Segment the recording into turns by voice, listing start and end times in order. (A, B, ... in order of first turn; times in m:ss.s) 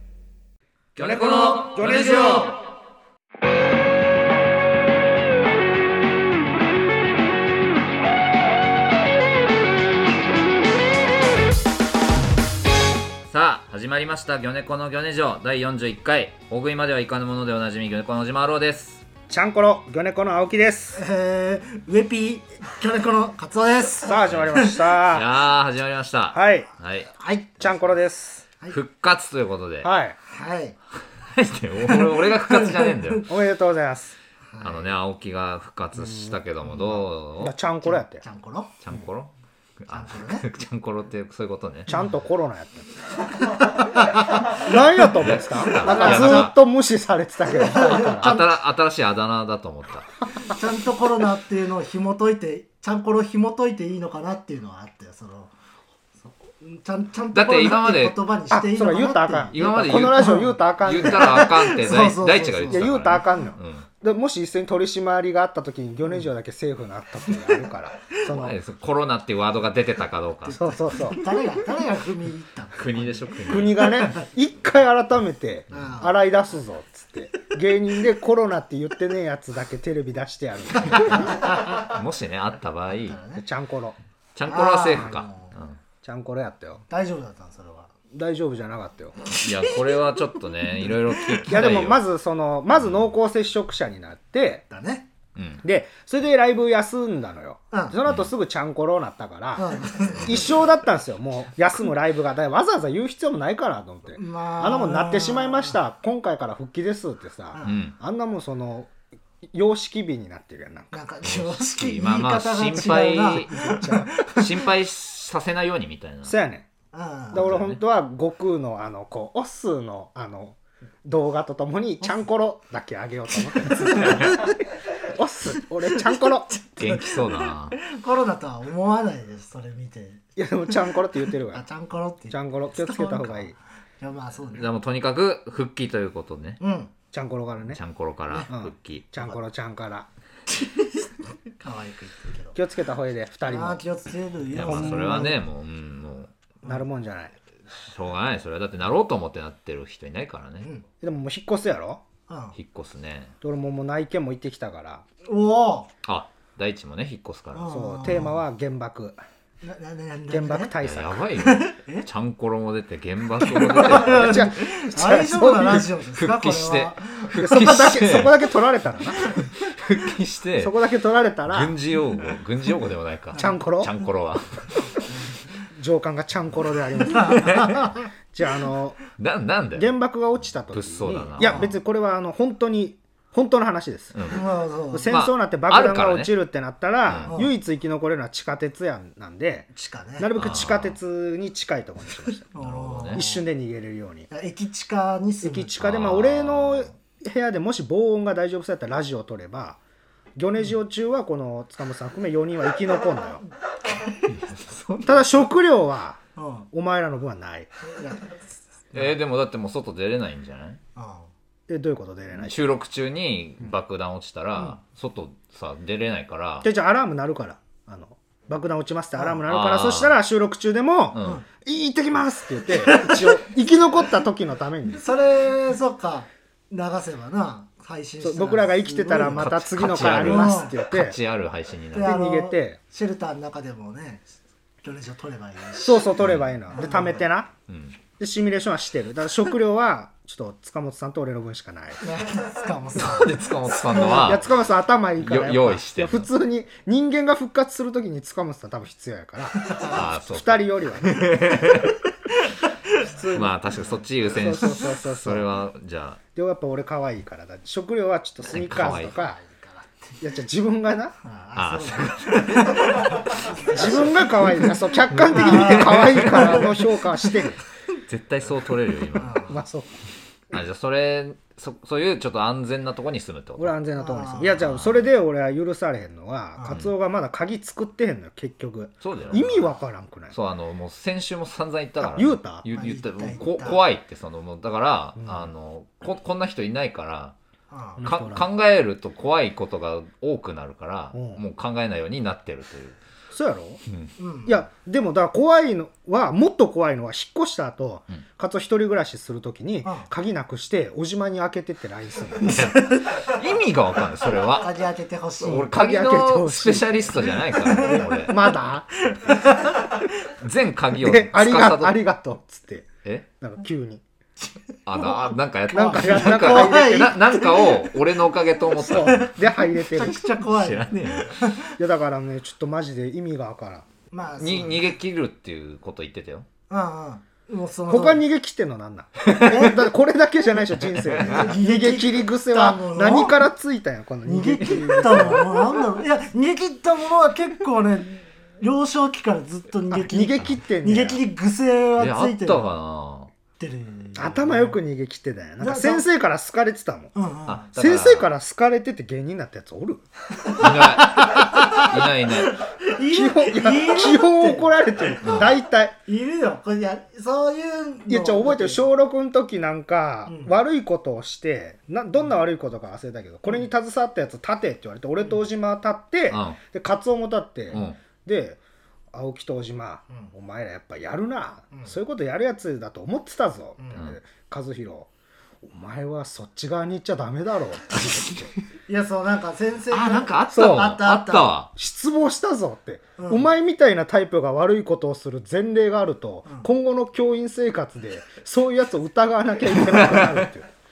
0:01.0-0:02.6 A
0:01.0-0:02.5 B
0:13.3-0:19.0 A
0:19.3-0:21.0 B
0:20.9-0:24.8 C
0:24.0-0:25.3 B
0:25.1-0:27.1 A
0:26.3-0:26.7 B
0:27.2-0:27.9 C
0:27.6-0:28.4 B
0:28.7-0:29.9 A
0:29.8-0:30.2 B
0:30.2-0:30.8 C
0:31.2-0:33.3 A
0:31.8-0:33.3 C
0:33.3-0:34.1 B
0:34.5-0:34.9 C
0:34.6-0:37.5 A
0:36.0-0:38.2 B
0:37.8-0:38.7 C
0:38.8-0:41.9 A
0:39.9-0:40.4 C
0:41.9-0:42.1 C
0:41.9-0:42.9 B
0:43.3-0:45.1 C
0:44.1-0:48.4 B
0:45.2-0:46.5 A
0:45.6-0:46.5 C
0:47.5-0:48.5 C
0:47.9-0:50.1 A
0:50.4-0:55.5 C
0:56.2-0:59.5 C
0:57.3-0:58.2 A
0:58.5-1:01.6 B
0:59.5-1:03.8 A
1:00.1-1:03.4 C
1:02.7-1:08.6 B
1:08.2-1:10.6 A
1:10.5-1:14.2 C
1:10.5-1:11.3 B
1:12.8-1:14.1 A
1:13.5-1:21.3 B
1:15.7-1:16.1 C
1:20.9-1:21.9 C
1:21.7-1:23.2 A
1:23.0-1:23.4 C
1:23.3-1:24.0 B
1:24.3-1:25.8 A
1:24.4-1:25.5 C
1:26.0-1:26.8 B
1:26.9-1:27.9 C
1:28.1-1:29.3 B
1:29.3-1:31.4 C
1:29.4-1:32.0 A
1:31.5-1:34.6 B
1:34.7-1:35.1 C
1:35.4-1:35.6 A
1:35.6-1:48.9 B
1:37.7-1:38.0 C
1:38.0-1:38.3 A
1:39.6-1:40.6 C
1:44.1-1:45.8 C
1:47.5-1:47.8 C
1:47.6-1:47.9 A
1:49.5-1:50.9 B
1:50.9-1:54.5 C
1:51.3-1:53.5 A
1:53.2-1:54.3 B
1:54.2-1:56.3 A
1:56.2-1:56.7 B
1:56.9-1:57.5 C
1:57.3-2:06.5 B
1:57.3-1:57.8 A
2:03.5-2:04.5 C
2:05.9-2:11.0 C
2:06.8-2:07.8 A
2:10.4-2:11.6 B
2:11.5-2:14.7 C
2:12.3-2:13.5 B
2:14.5-2:16.6 A
2:16.6-2:16.9 C
2:17.1-2:17.8 B
2:17.7-2:19.1 A
2:18.5-2:20.1 B
2:20.5-2:22.6 C
2:22.5-2:23.8 B
2:23.5-2:25.3 C
2:24.5-2:26.3 A
2:24.6-2:25.4 B
2:26.6-2:27.3 B
2:27.8-2:30.7 A
2:31.0-2:32.0 B
2:32.3-2:32.6 C
2:32.6-2:33.3 A
2:33.4-2:35.0 B
2:35.2-2:35.9 C
2:36.0-2:37.7 A
2:37.5-2:38.4 C
2:37.7-2:39.2 B
2:39.6-2:40.7 C
2:40.3-2:41.3 B
2:40.8-2:44.4 A
2:41.4-2:42.1 C
2:43.4-2:47.4 C
2:43.8-2:45.8 B
2:45.7-2:48.4 A
2:47.4-2:49.2 B
2:49.2-2:49.7 C
2:49.5-2:50.7 A
2:50.6-2:51.8 B
2:51.5-2:54.8 A
2:53.3-2:53.6 C
2:53.4-2:53.9 B
2:55.0-2:55.4 C
2:55.7-2:59.0 B
2:57.1-2:58.0 C
2:57.3-2:57.8 A
2:59.2-2:59.9 A
2:59.7-3:04.2 B
3:00.7-3:01.6 A
3:01.4-3:01.7 C
3:04.1-3:04.5 A
3:04.3-3:05.1 C
3:04.9-3:12.5 B
3:05.1-3:06.3 A
3:07.0-3:07.3 A
3:07.2-3:07.5 C
3:09.7-3:10.3 C
3:10.4-3:11.0 A
3:12.5-3:13.4 C
3:12.5-3:13.2 A
3:13.1-3:14.3 B
3:14.3-3:15.7 C
3:15.4-3:19.8 B
3:15.8-3:16.9 A
3:20.4-3:23.4 B
3:23.9-3:25.4 C
3:25.0-3:26.2 B
3:26.4-3:26.7 C
3:26.7-3:27.7 B
3:27.9-3:28.4 C
3:28.9-3:30.8 A
3:31.0-3:31.3 C
3:31.7-3:32.5 B
3:32.4-3:36.7 A
3:36.6-3:45.0 B
3:39.1-3:39.4 C
3:39.4-3:40.2 A
3:41.1-3:41.4 A
3:42.7-3:43.4 C
3:45.0-3:50.8 C
3:48.2-3:51.2 B
3:49.3-3:52.1 A
3:51.9-3:54.3 C
3:52.0-3:52.8 B
3:54.8-3:57.3 C
3:55.8-3:57.5 B
3:56.2-3:56.6 A
3:57.7-3:58.0 A
3:58.2-4:02.0 B
4:02.0-4:04.4 C
4:03.0-4:04.5 A
4:03.9-4:11.6 B
4:05.2-4:06.3 A
4:09.6-4:10.0 C
4:09.9-4:12.0 A
4:12.4-4:13.1 C
4:13.0-4:13.6 B
4:13.3-4:16.2 A
4:14.2-4:15.5 B
4:16.3-4:19.4 B
4:18.5-4:19.2 A
4:19.1-4:20.1 C
4:20.2-4:21.2 B
4:21.2-4:27.5 C
4:21.6-4:23.5 A
4:23.7-4:27.6 B
4:25.1-4:26.8 A
4:28.1-4:29.4 A
4:29.2-4:29.6 C
4:29.4-4:30.0 B
4:30.5-4:33.7 A
4:33.6-4:40.3 B
4:34.0-4:34.6 C
4:34.6-4:35.1 A
4:39.0-4:39.7 A
4:40.3-4:47.3 A
4:42.0-4:42.6 B
4:42.7-4:43.8 C
4:45.2-4:45.5 B
4:47.7-4:48.0 C
4:48.0-4:48.4 B
4:48.0-4:53.0 A
4:51.1-4:51.4 B
4:53.3-4:53.8 B
4:54.2-4:54.6 C
4:54.4-5:02.8 B
4:59.8-5:00.1 C
5:02.4-5:04.8 A
5:02.5-5:03.3 C
5:04.4-5:05.7 C
5:05.4-5:08.4 A
5:05.5-5:08.9 B
5:07.5-5:10.0 C
5:10.4-5:12.0 A
5:11.0-5:12.9 B
5:13.4-5:14.0 B
5:14.8-5:19.2 A
5:15.0-5:18.0 C
5:15.7-5:17.2 B
5:18.8-5:21.7 C
5:18.8-5:20.2 B
5:20.4-5:21.4 A
5:21.8-5:23.9 B
5:24.1-5:25.0 C
5:24.4-5:26.5 A
5:26.7-5:28.2 C
5:27.9-5:35.7 B
5:29.2-5:29.6 A
5:29.4-5:29.8 C
5:30.9-5:31.4 A
5:31.2-5:33.4 C
5:34.2-5:42.7 C
5:39.9-5:41.2 B
5:42.0-5:43.3 A
5:43.6-5:44.8 C
5:44.2-5:47.1 B
5:45.6-5:46.1 C
5:47.1-5:47.7 C
5:47.5-5:48.3 A
5:47.8-5:50.0 B
5:50.4-5:55.5 C
5:50.5-5:52.6 A
5:53.1-5:56.0 B
5:55.2-5:55.5 A
5:56.0-5:58.9 C
5:58.1-6:08.6 B
6:00.2-6:00.6 C
6:06.3-6:06.6 A
6:07.7-6:08.0 A
6:09.1-6:15.1 B
6:15.6-6:18.5 B
6:18.9-6:21.5 C
6:19.9-6:21.7 A
6:20.5-6:20.8 B
6:21.7-6:30.7 B
6:23.2-6:23.5 C
6:29.7-6:30.5 A